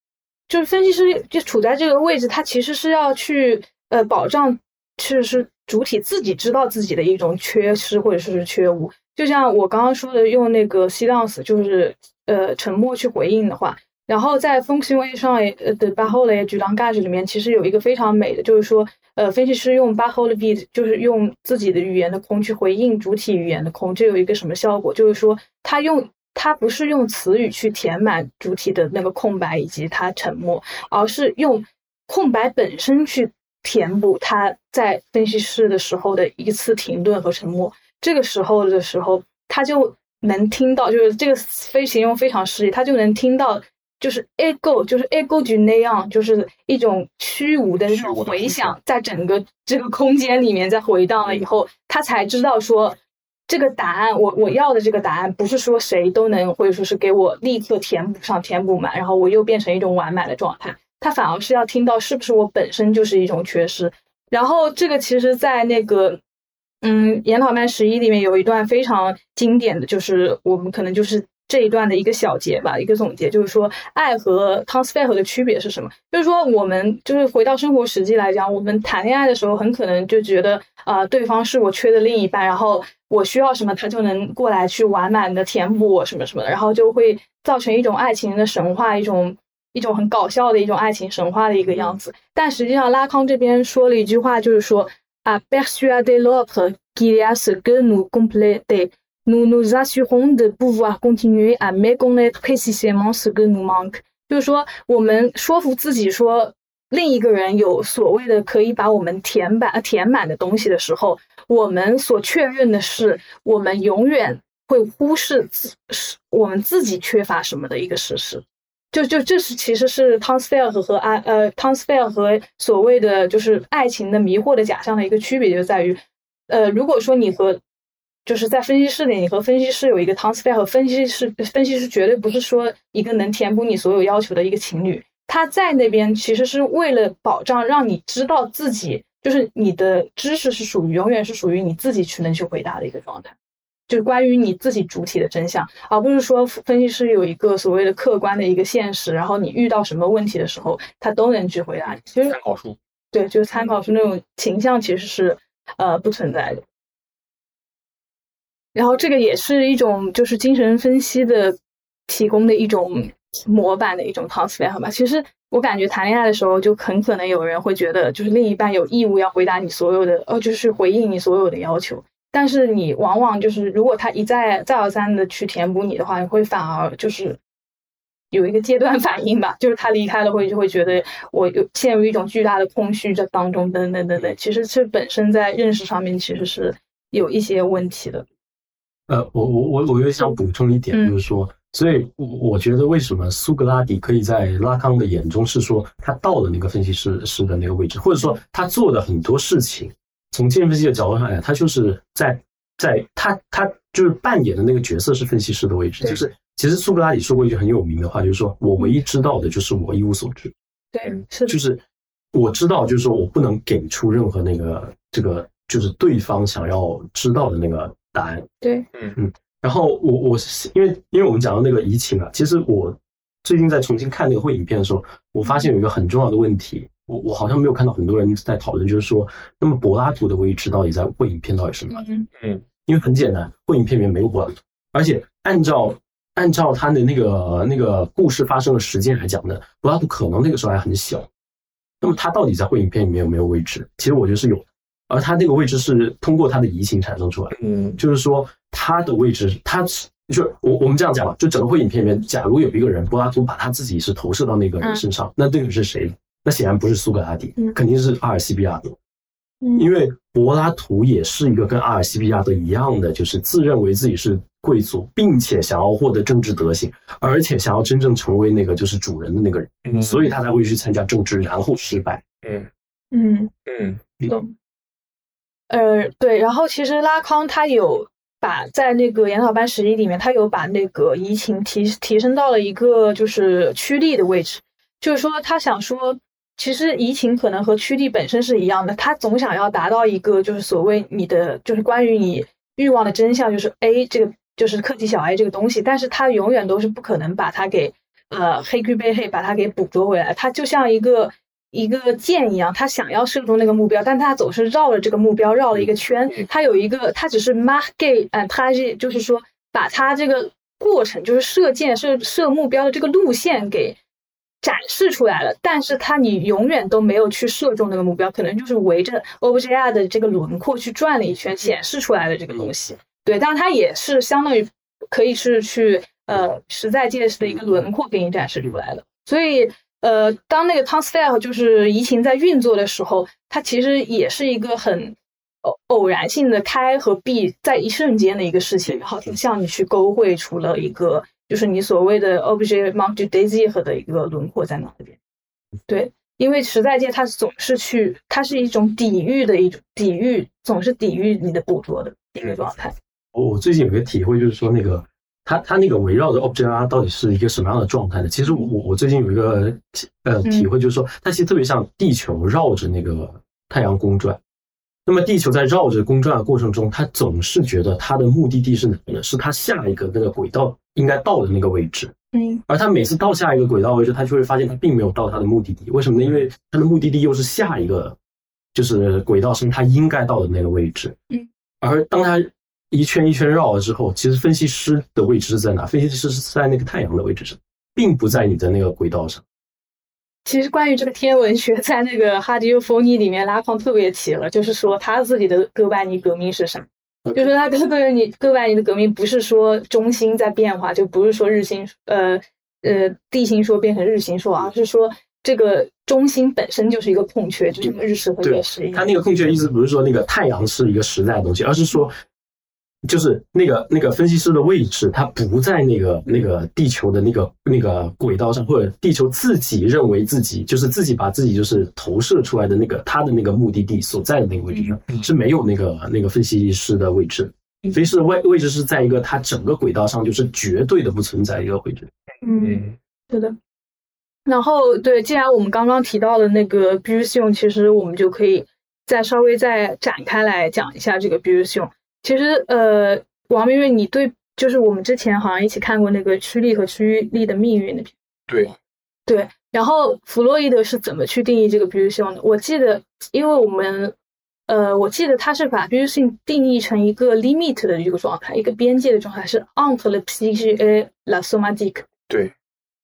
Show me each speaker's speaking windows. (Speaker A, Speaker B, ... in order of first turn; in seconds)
Speaker A: 0.5-53.0, 53.5-66.2, 66.8-127.6, 128.2-143.3, 143.9-152.4, 153.1-156.6, 158.7-161.6, 162.1-177.4, 178.3-188.2, 210.9-211.6, 218.6-218.9, 225.4-225.7, 231.9-232.3, 259.6-259.9, 273.1-273.5, 274.3-274.5, 275.7-314.0, 314.6-345.2, 345.9-352.9, 372.3-372.6, 390.4-409.1, 432.4-433.6, 434.4-448.1, 449.3-454.1, 454.7-462.0
Speaker B: 47.9-48.8, 91.7-92.0, 151.8-152.8, 232.4-232.6, 247.5-248.0, 269.9-270.2, 271.9-272.7, 273.6-274.2, 432.5-433.0, 448.5-448.8
Speaker C: 189.1-210.5, 211.4-211.8, 212.3-218.5, 219.2-232.0, 232.8-241.3, 242.0-258.9, 259.7-272.2, 353.3-364.4, 365.1-372.1, 372.7-378.1, 378.7-381.1, 381.8-389.4, 408.4-412.1, 413.0-432.1